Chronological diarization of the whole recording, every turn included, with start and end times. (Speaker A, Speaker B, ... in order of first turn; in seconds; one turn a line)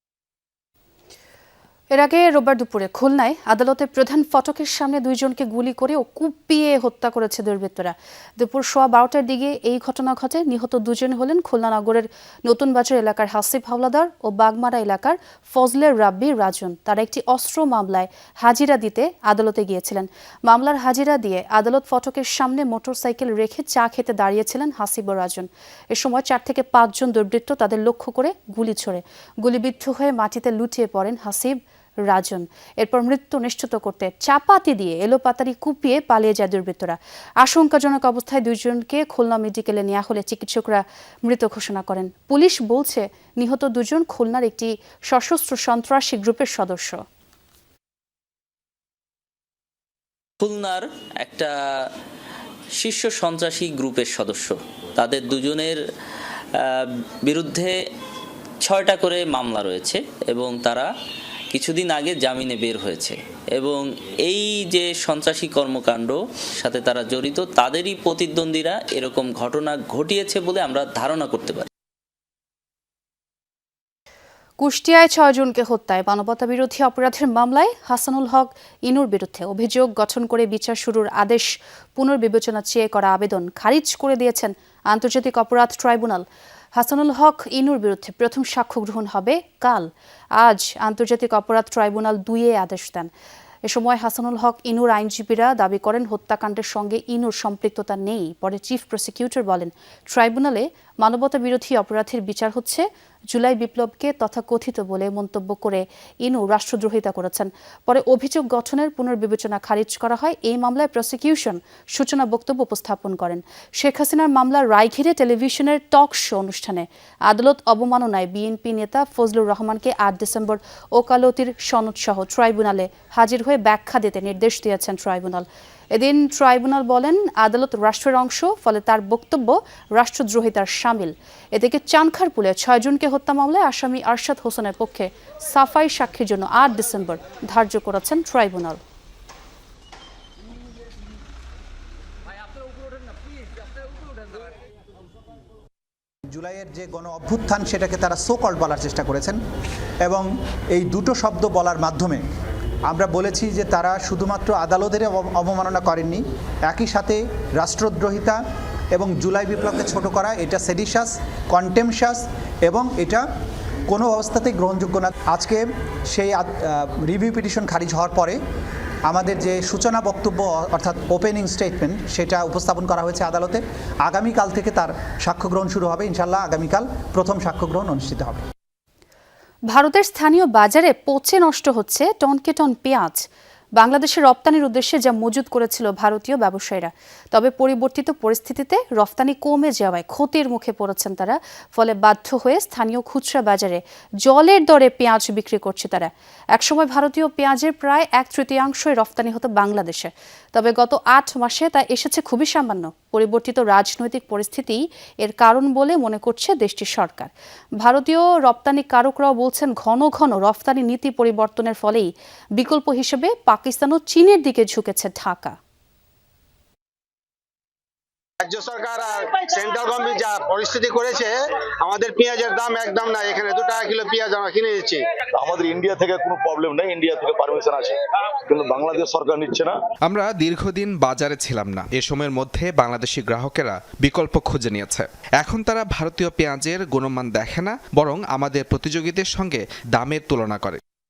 Speaker A: 1.9-31.6
Speaker A: 32.1-47.0
Speaker B: 50.4-51.5
Speaker B: 52.8-55.8
Speaker B: 56.6-57.8
Speaker B: 58.6-60.9
Speaker B: 61.5-71.7
Speaker A: 74.6-93.1
Speaker A: 93.7-138.8
Speaker C: 146.3-149.4
Speaker C: 150.1-152.2
Speaker C: 152.9-158.4
Speaker C: 158.9-163.2
Speaker C: 163.9-168.4
Speaker C: 169.1-178.4
Speaker A: 179.7-183.2
Speaker A: 183.8-207.3
Speaker A: 207.8-215.6
Speaker D: 218.5-221.3
Speaker E: 219.6-220.3
Speaker E: 220.9-221.3
Speaker D: 221.9-225.0
Speaker E: 223.0-223.7
Speaker E: 225.4-227.9
Speaker E: 228.5-229.8
Speaker F: 230.1-240.8